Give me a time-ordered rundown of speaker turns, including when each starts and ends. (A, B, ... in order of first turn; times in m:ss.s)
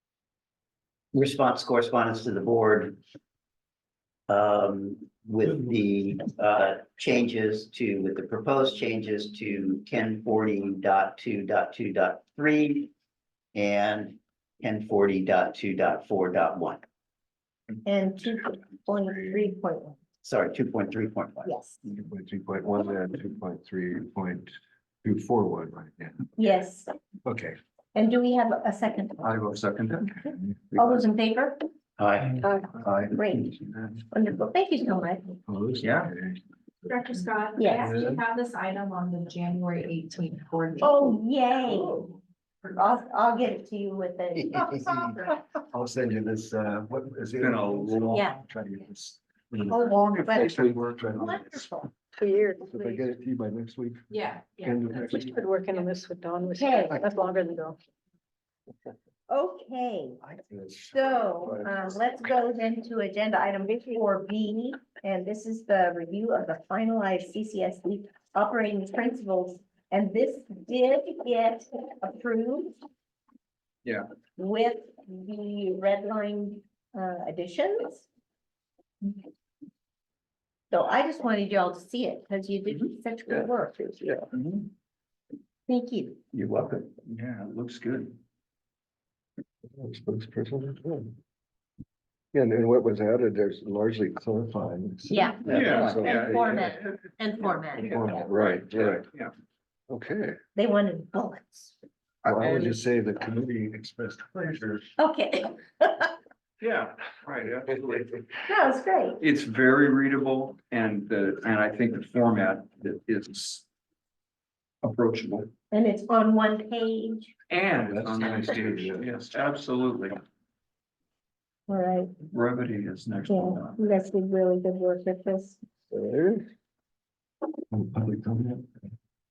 0:01.1-0:03.0 A
0:04.3-0:12.9 A
0:13.5-0:16.8 A
0:17.8-0:20.0 B
0:20.2-0:21.5 A
0:21.4-0:21.8 B
0:21.8-0:26.2 C
0:26.4-0:26.9 B
0:27.2-0:27.6 C
0:28.0-0:29.3 B
0:29.2-0:30.2 D
0:30.2-0:31.6 B
0:32.0-0:32.4 A
0:33.1-0:33.5 B
0:34.1-0:35.3 B
0:35.5-0:36.4 C
0:35.8-0:36.1 D
0:37.1-0:39.4 E
0:37.6-0:38.0 B
0:37.7-0:38.2 C
0:40.4-0:41.0 E
0:40.8-0:42.1 B
0:42.7-0:45.6 B
0:45.7-0:51.7 C
0:47.4-0:48.3 D
0:49.7-0:51.2 D
0:49.7-0:50.6 B
0:51.1-0:51.9 B
0:52.2-0:53.0 F
0:52.6-0:55.3 C
0:54.1-0:54.7 E
0:54.9-0:57.8 F
0:56.5-0:57.0 B
0:59.3-1:00.2 B
1:00.2-1:01.7 C
1:00.9-1:12.8 B
1:14.4-1:18.1 B
1:20.7-1:24.0 B
1:24.3-1:24.7 D
1:25.7-1:26.2 B
1:26.3-1:26.9 A
1:27.0-1:28.2 D
1:29.7-1:31.2 C
1:32.3-1:36.7 C
1:35.1-1:38.1 B
1:35.4-1:36.9 D
1:35.5-1:36.2 A
1:37.7-1:39.3 D
1:37.8-1:39.1 C
1:39.9-1:40.4 C
1:40.6-1:41.8 B
1:42.2-1:44.9 C
1:42.2-1:42.8 D
1:45.0-1:46.1 B
1:46.6-1:48.2 D
1:48.5-1:49.2 B
1:49.2-1:53.6 D
1:54.8-1:55.5 D
1:55.7-1:57.3 B
1:57.5-2:00.2 D
1:57.8-1:59.1 C
2:01.7-2:02.2 B
2:02.3-2:03.8 D
2:03.3-2:05.6 B
2:05.9-2:06.4 C
2:07.7-2:08.7 C